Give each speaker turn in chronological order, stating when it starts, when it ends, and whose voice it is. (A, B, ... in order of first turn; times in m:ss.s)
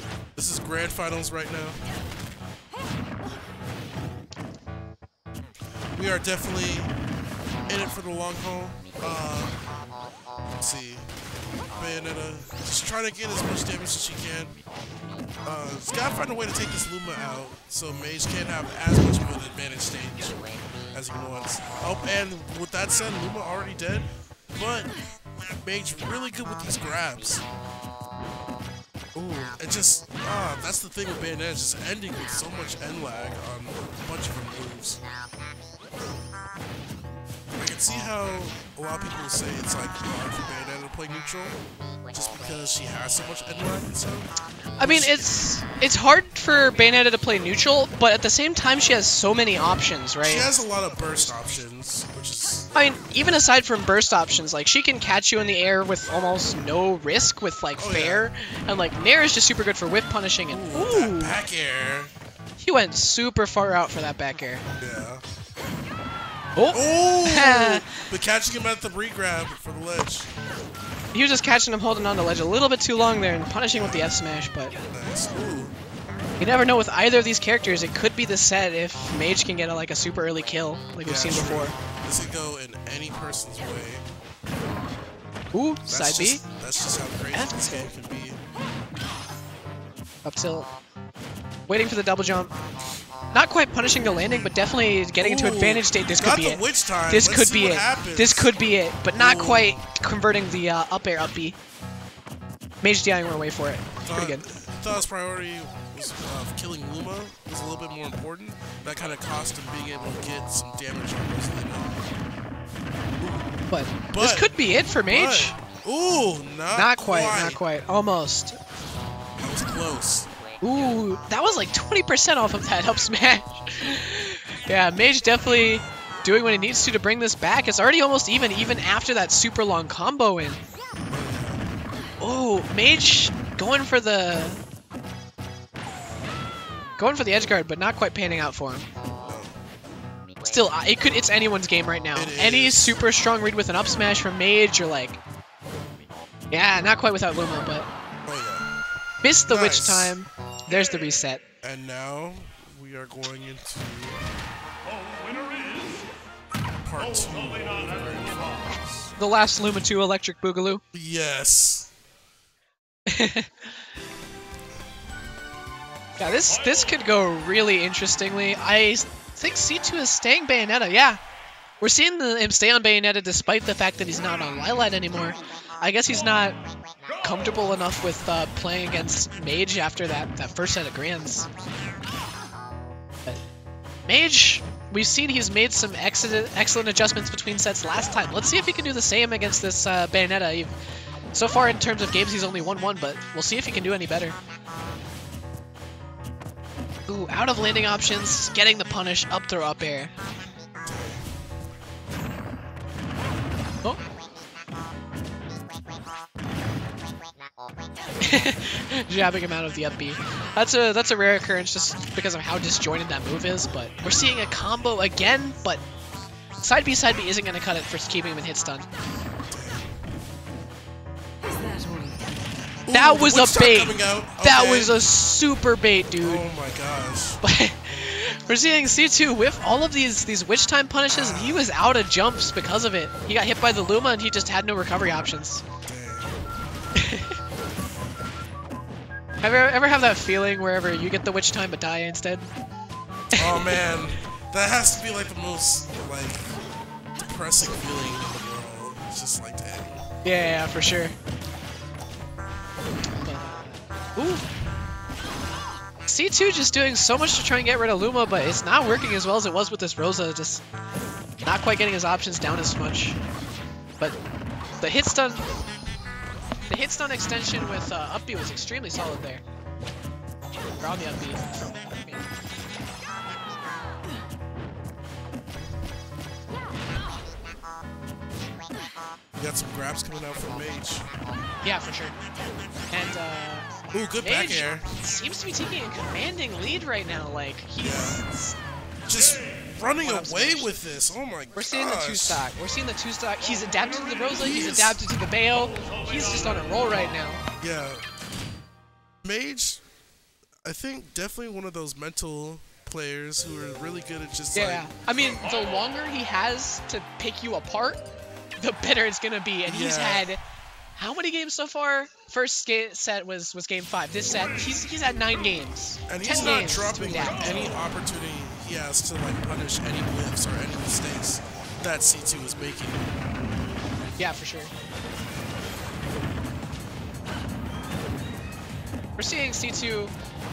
0:00.3-0:01.9 A
0:06.0-0:06.9 A
0:07.7-0:09.6 A
0:10.6-0:11.1 A
0:11.7-0:14.5 A
0:15.4-0:20.4 A
0:20.9-0:24.9 A
0:25.5-0:27.4 A
0:29.1-0:35.0 A
0:37.5-0:41.6 A
0:42.1-0:44.3 A
0:44.8-0:50.5 B
0:44.8-0:45.3 A
0:50.2-0:52.7 A
0:52.7-1:01.4 B
0:57.8-0:58.3 A
1:00.5-1:02.1 A
1:02.6-1:04.6 B
1:04.8-1:05.2 A
1:06.6-1:08.0 B
1:06.7-1:10.3 A
1:11.1-1:14.7 B
1:13.7-1:14.1 A
1:14.9-1:15.7 A
1:16.4-1:21.7 B
1:21.0-1:24.0 A
1:25.5-1:26.4 B
1:25.8-1:28.4 A
1:27.3-1:27.9 B
1:30.2-1:30.7 B
1:31.7-1:32.5 B
1:33.3-1:41.6 B
1:35.2-1:38.5 A
1:39.1-1:39.8 A
1:42.8-1:44.4 B
1:44.1-1:52.1 A
1:53.2-1:53.6 A
1:53.7-1:55.5 B
1:54.1-1:54.5 A
1:55.1-1:57.6 A
1:56.7-1:58.6 B
1:59.4-2:00.3 A
2:00.6-2:10.6 B
2:11.1-2:11.6 A
2:12.2-2:14.6 B
2:17.0-2:18.9 B
2:19.2-2:19.5 A
2:20.4-2:25.2 B
2:22.1-2:23.0 A
2:26.5-2:27.9 B
2:28.2-2:28.7 A
2:29.2-2:31.4 B
2:29.5-2:30.2 A
2:31.6-2:34.3 A
2:36.8-2:39.1 A
2:39.2-2:40.8 B
2:40.9-2:41.9 A
2:43.1-2:43.8 B
2:46.2-2:51.2 B
2:51.8-2:56.6 B
2:57.2-3:01.5 B
3:04.1-3:10.7 B
3:11.3-3:14.4 B
3:17.1-3:20.1 B
3:20.8-3:21.3 A
3:28.2-3:35.8 B
3:36.6-3:38.8 B
3:39.5-3:40.0 A
3:41.4-3:42.2 A
3:42.9-3:45.0 A
3:42.9-3:46.4 B
3:46.2-3:47.4 A
3:47.4-3:55.6 B
3:51.1-3:51.6 A
3:55.8-3:56.5 A
3:56.9-3:57.4 B
3:59.4-4:02.5 B
4:03.3-4:03.8 B
4:03.3-4:06.5 A
4:07.2-4:10.1 A
4:10.2-4:11.1 B
4:13.2-4:14.4 B
4:16.0-4:20.6 B
4:21.4-4:23.2 B
4:24.8-4:25.4 B
4:26.7-4:29.4 B
4:30.8-4:32.3 B
4:39.3-4:41.0 A
4:41.6-4:42.2 B
4:42.9-4:43.7 B
4:43.9-4:44.9 A
4:44.2-4:48.6 B
4:47.8-4:48.2 A
4:49.0-4:52.4 A
4:50.0-4:50.8 B
4:51.5-4:57.4 B
4:54.4-4:55.0 A
4:57.6-4:58.0 A
4:59.2-4:59.8 A
5:00.6-5:04.9 A
5:04.5-5:08.0 B
5:08.6-5:10.4 B
5:09.6-5:10.2 A
5:11.0-5:17.5 B
5:16.1-5:23.2 A
5:24.2-5:24.7 B
5:29.2-5:30.1 B